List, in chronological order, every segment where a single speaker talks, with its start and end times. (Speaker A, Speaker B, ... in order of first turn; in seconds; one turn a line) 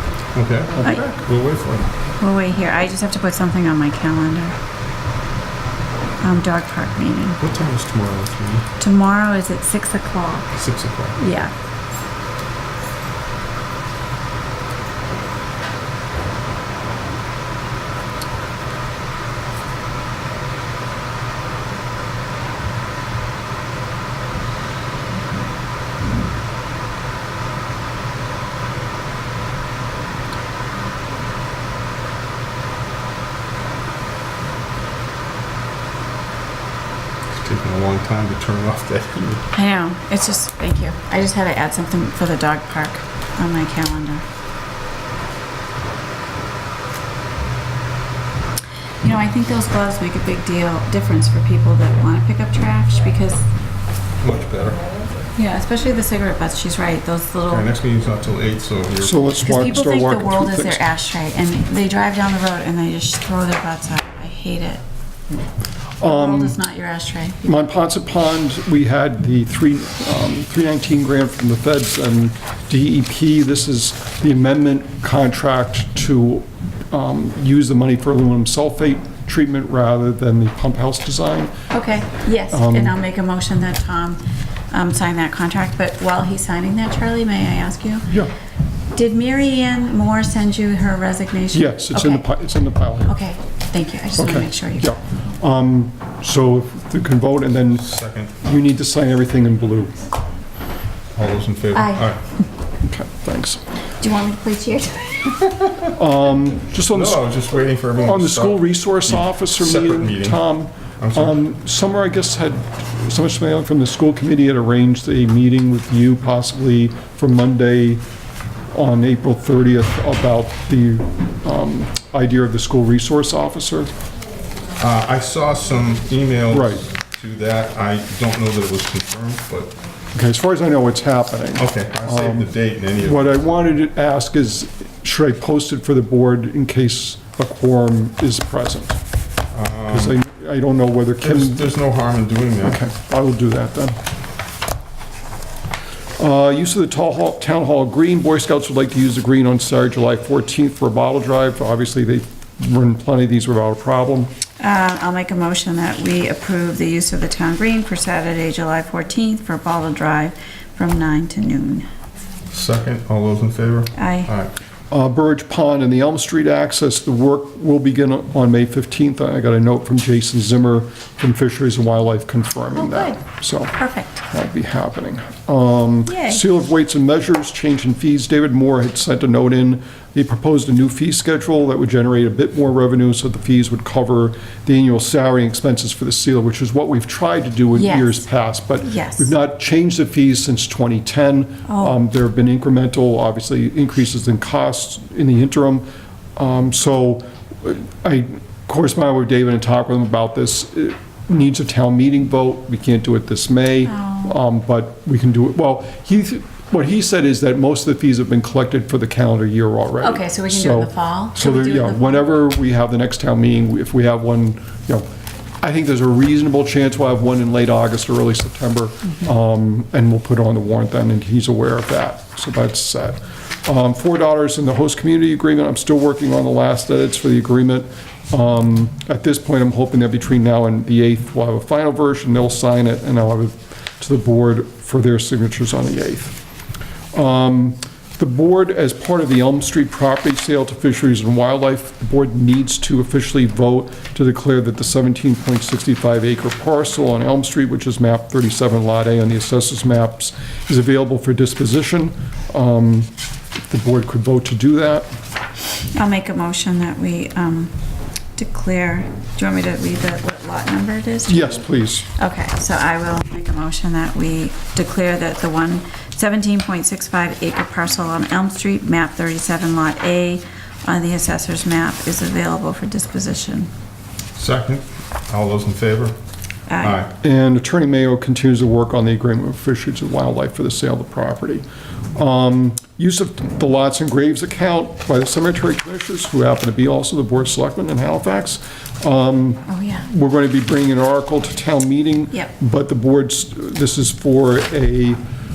Speaker A: 0.3-1.9
Speaker B: 0.7-1.1
Speaker C: 2.2-4.5
Speaker C: 6.2-7.4
Speaker A: 7.4-8.7
Speaker C: 8.8-10.6
Speaker A: 10.6-11.2
Speaker C: 11.2-11.5
Speaker A: 37.3-39.4
Speaker C: 39.5-44.2
Speaker C: 49.0-53.4
Speaker A: 54.2-54.8
Speaker C: 55.3-57.7
Speaker A: 57.5-59.4
Speaker B: 59.0-60.9
Speaker C: 59.4-64.8
Speaker B: 66.0-66.6
Speaker C: 66.0-67.4
Speaker B: 67.4-81.5
Speaker C: 81.7-88.1
Speaker B: 82.5-83.0
Speaker C: 88.9-92.3
Speaker B: 91.5-93.1
Speaker C: 93.0-95.0
Speaker B: 94.2-97.9
Speaker A: 97.7-98.3
Speaker B: 98.4-100.0
Speaker A: 101.2-102.2
Speaker C: 101.7-102.1
Speaker B: 102.8-103.6
Speaker C: 104.0-105.6
Speaker B: 106.0-107.2
Speaker A: 106.9-110.4
Speaker B: 108.0-118.0
Speaker A: 111.0-111.4
Speaker B: 118.7-123.9
Speaker A: 124.8-129.7
Speaker B: 126.5-126.8
Speaker B: 130.1-139.0
Speaker A: 131.6-133.4
Speaker A: 139.5-140.2
Speaker B: 139.9-141.7
Speaker A: 141.2-142.8
Speaker B: 142.6-144.0
Speaker B: 146.2-154.3
Speaker C: 154.6-161.8
Speaker A: 162.5-164.5
Speaker C: 163.9-164.3
Speaker B: 164.9-195.8
Speaker C: 172.7-173.2
Speaker C: 173.8-174.2
Speaker C: 176.1-176.4
Speaker C: 187.7-188.2
Speaker C: 188.8-189.3
Speaker C: 191.7-191.9
Speaker B: 196.3-215.1
Speaker C: 203.8-204.3
Speaker C: 210.0-212.3
Speaker B: 215.6-236.4
Speaker B: 237.1-253.1
Speaker B: 253.7-255.1
Speaker C: 255.9-257.7
Speaker C: 258.4-273.7
Speaker B: 261.3-262.1
Speaker A: 274.4-276.1
Speaker C: 276.7-277.0
Speaker A: 276.8-277.1
Speaker B: 277.2-281.6
Speaker B: 282.1-295.2
Speaker C: 289.7-290.1